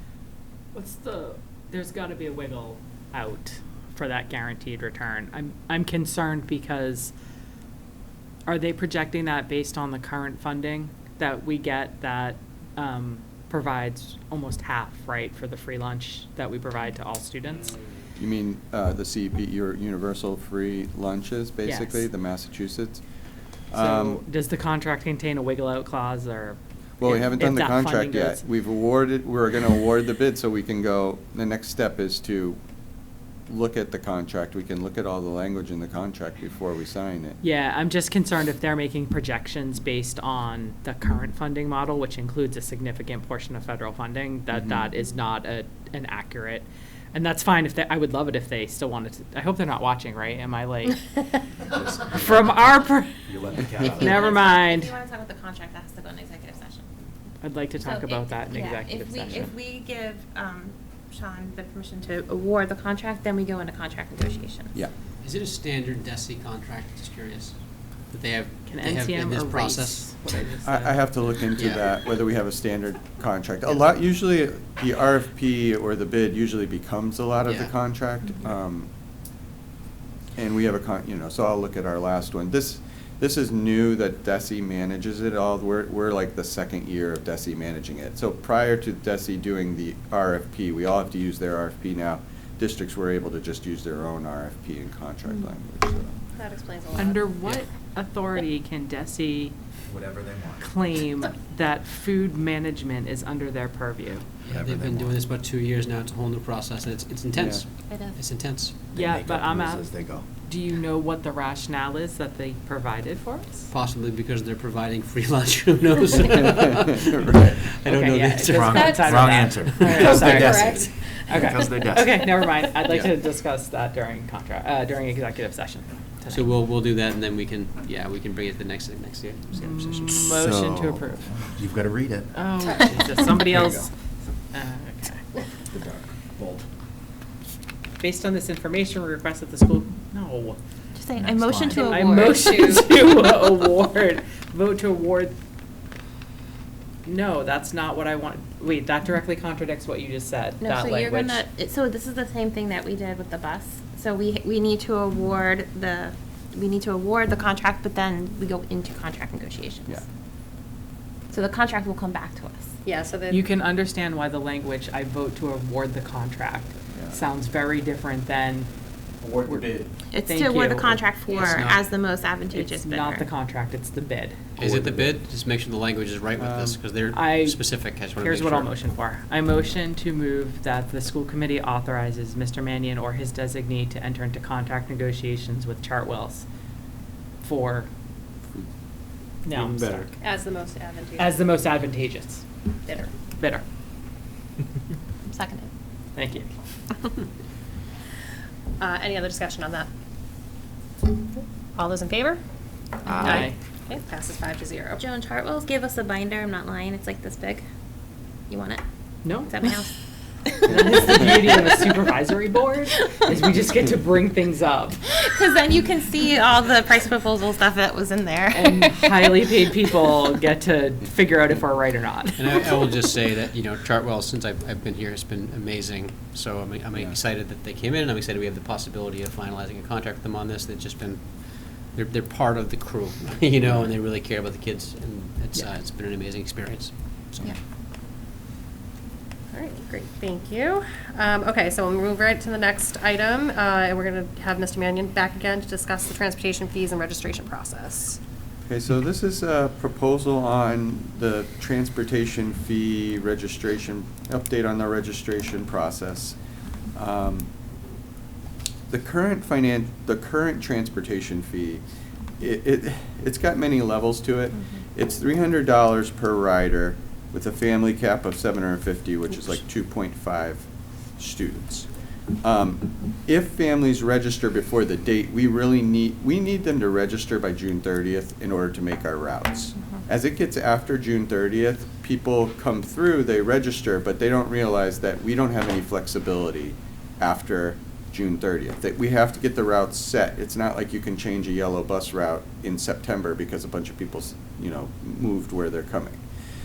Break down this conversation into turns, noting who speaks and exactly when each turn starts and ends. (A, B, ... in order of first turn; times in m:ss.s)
0:00.7-0:07.1 A
0:08.5-0:17.8 A
0:18.2-0:23.0 B
0:21.6-0:22.1 A
0:23.7-0:24.2 B
0:23.7-0:28.4 A
0:27.0-0:32.6 B
0:33.5-0:37.4 B
0:37.4-0:51.0 A
0:51.7-0:52.7 C
0:52.1-0:55.0 A
0:53.3-0:54.3 C
0:54.0-0:56.9 D
0:57.4-0:59.5 A
0:57.8-1:04.7 D
1:05.2-1:10.2 E
1:08.7-1:11.0 A
1:10.6-1:18.9 B
1:11.6-1:11.8 E
1:17.4-1:17.7 E
1:20.4-1:36.2 B
1:36.4-1:37.2 F
1:37.0-1:39.6 A
1:39.9-1:40.6 C
1:40.6-1:44.3 A
1:44.4-1:48.8 E
1:44.4-1:45.2 C
1:47.3-1:47.6 B
1:47.9-1:48.2 D
1:48.9-1:53.7 A
1:48.9-1:50.2 C
1:53.7-2:00.5 E
1:57.3-1:57.5 B
1:57.8-2:06.5 A
1:58.4-2:02.2 C
2:00.3-2:01.1 F
2:06.3-2:10.0 E
2:09.6-2:11.3 A
2:10.0-2:12.3 C
2:12.3-2:15.2 A
2:13.4-2:13.9 C
2:15.7-2:16.7 C
2:18.0-2:20.6 A
2:21.0-2:22.9 D
2:21.2-2:22.0 C
2:21.7-2:25.4 A
2:27.0-2:31.4 A
2:30.6-2:40.0 D
2:41.3-2:42.7 D
2:42.8-2:43.4 F
2:43.3-2:48.7 A
2:49.2-2:49.9 C
2:50.1-2:53.3 D
2:50.2-2:51.4 A
2:51.3-2:51.8 E
2:52.5-2:54.4 A
2:54.6-2:58.7 E
2:54.6-2:55.2 C
2:56.4-2:56.8 B
2:57.1-3:06.4 A
3:07.4-3:07.9 A
3:09.4-3:10.2 A
3:09.5-3:10.1 E
3:10.2-3:11.4 F
3:11.2-3:12.4 A
3:13.4-3:13.6 A
3:15.2-3:15.7 D
3:16.2-3:16.5 A
3:18.8-3:19.9 F
3:21.8-3:22.4 F
3:23.1-3:25.0 F
3:23.1-3:23.4 D
3:23.2-3:23.6 A
3:25.0-3:27.7 D
3:28.5-3:28.8 D
3:29.2-3:29.7 A
3:29.5-3:29.9 D
3:30.6-3:35.0 A
3:35.1-3:39.4 D
3:38.5-3:42.6 A
3:42.4-3:57.6 E
3:53.7-3:53.9 B
3:59.5-4:08.2 F
4:08.7-4:16.4 B
4:16.9-4:17.5 B
4:18.9-4:21.8 B
4:22.4-4:31.9 B
4:32.4-4:56.2 B